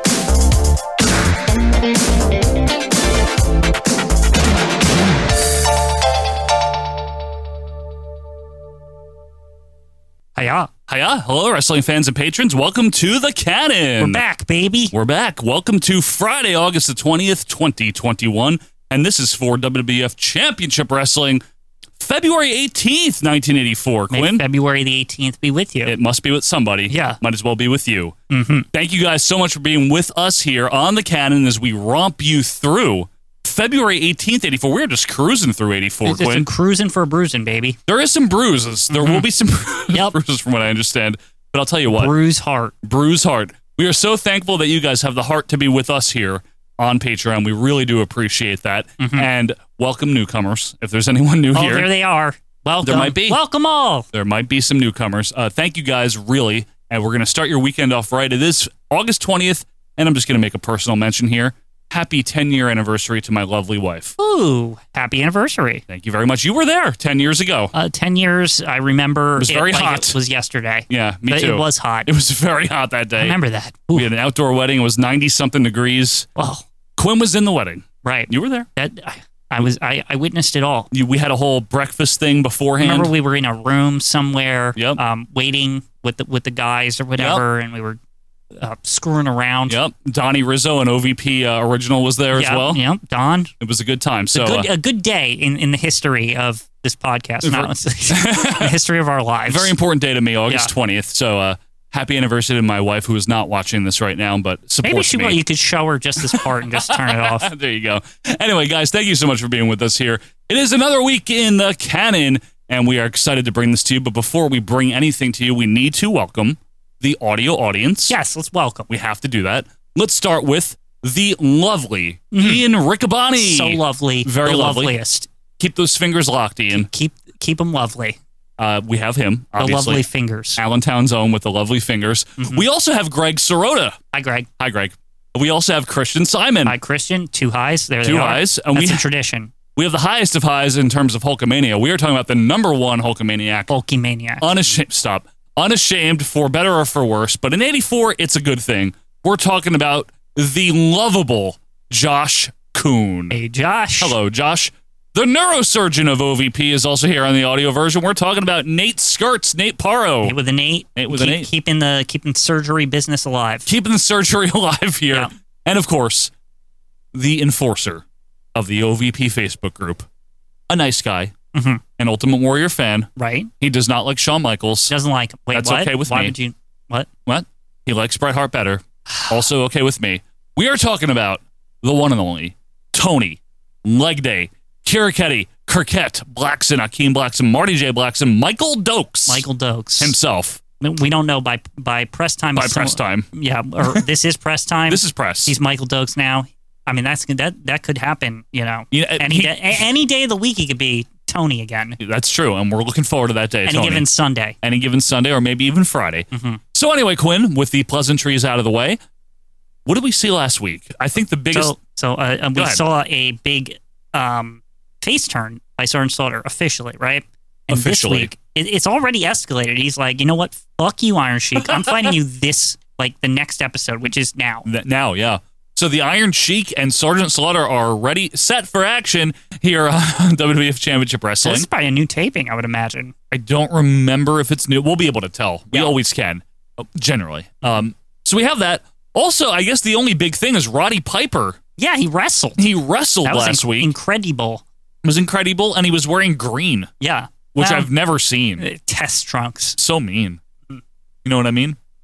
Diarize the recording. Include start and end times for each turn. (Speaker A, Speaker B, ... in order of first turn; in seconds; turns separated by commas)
Speaker A: 10.3-10.7, Speaker B: 10.9-14.2, Speaker A: 14.0-14.9, Speaker B: 14.9-21.4, Speaker B: 22.0-24.4, Speaker A: 24.1-25.9, Speaker B: 25.9-28.1, Speaker A: 26.9-27.2, Speaker A: 28.3-28.7, Speaker B: 28.7-36.5, Speaker A: 36.0-37.8, Speaker B: 37.9-42.1, Speaker A: 38.9-39.3, Speaker A: 39.9-40.1, Speaker A: 41.9-42.7, Speaker B: 42.8-51.9, Speaker A: 49.0-49.3, Speaker A: 51.5-54.1, Speaker B: 52.8-53.4, Speaker B: 54.1-64.1, Speaker A: 64.2-65.8, Speaker B: 65.9-67.7, Speaker A: 67.7-72.1, Speaker B: 69.4-70.2, Speaker B: 70.9-73.4, Speaker A: 73.2-74.1, Speaker B: 73.9-76.3, Speaker A: 76.3-76.6, Speaker B: 77.0-78.7, Speaker A: 78.0-80.9, Speaker B: 80.9-83.1, Speaker A: 82.8-88.0, Speaker B: 84.8-85.0, Speaker B: 87.2-87.4, Speaker A: 88.6-89.8, Speaker B: 89.7-92.8, Speaker A: 92.3-93.5, Speaker B: 93.6-94.7, Speaker A: 94.3-99.7, Speaker B: 97.4-98.8, Speaker B: 99.5-105.4, Speaker A: 104.8-107.5, Speaker B: 106.2-118.2, Speaker A: 118.1-118.9, Speaker B: 118.9-125.0, Speaker A: 122.3-122.6, Speaker A: 123.3-125.3, Speaker B: 125.6-126.9, Speaker A: 126.7-128.2, Speaker B: 128.6-130.0, Speaker A: 129.6-130.6, Speaker B: 130.6-134.0, Speaker A: 132.4-132.6, Speaker A: 134.1-134.5, Speaker B: 134.6-136.8, Speaker A: 136.6-139.5, Speaker B: 138.0-139.0, Speaker B: 139.8-143.7, Speaker A: 143.7-144.5, Speaker B: 144.4-153.4, Speaker A: 153.3-154.2, Speaker B: 154.0-160.3, Speaker A: 160.2-163.7, Speaker B: 160.9-161.5, Speaker B: 163.7-166.3, Speaker B: 167.1-170.1, Speaker B: 170.7-171.3, Speaker A: 171.5-171.8, Speaker B: 172.0-174.9, Speaker A: 173.2-173.5, Speaker A: 174.9-177.1, Speaker B: 175.5-176.3, Speaker B: 177.2-189.4, Speaker A: 179.1-179.4, Speaker A: 189.3-190.2, Speaker B: 190.0-190.6, Speaker A: 190.8-202.0, Speaker B: 192.5-193.3, Speaker B: 194.9-195.5, Speaker B: 198.9-199.8, Speaker B: 202.0-204.1, Speaker A: 203.7-204.6, Speaker B: 204.6-209.0, Speaker A: 206.3-206.6, Speaker B: 209.8-211.8, Speaker A: 211.5-224.7, Speaker B: 212.5-212.8, Speaker B: 217.7-218.3, Speaker B: 221.6-222.1, Speaker B: 224.7-231.7, Speaker A: 231.4-233.1, Speaker B: 233.3-241.6, Speaker A: 235.7-236.0, Speaker A: 241.8-242.7, Speaker B: 242.6-243.9, Speaker A: 243.2-244.6, Speaker B: 245.0-246.9, Speaker A: 247.0-247.9, Speaker B: 247.5-248.7, Speaker A: 248.6-249.8, Speaker B: 249.8-250.4, Speaker B: 251.2-251.8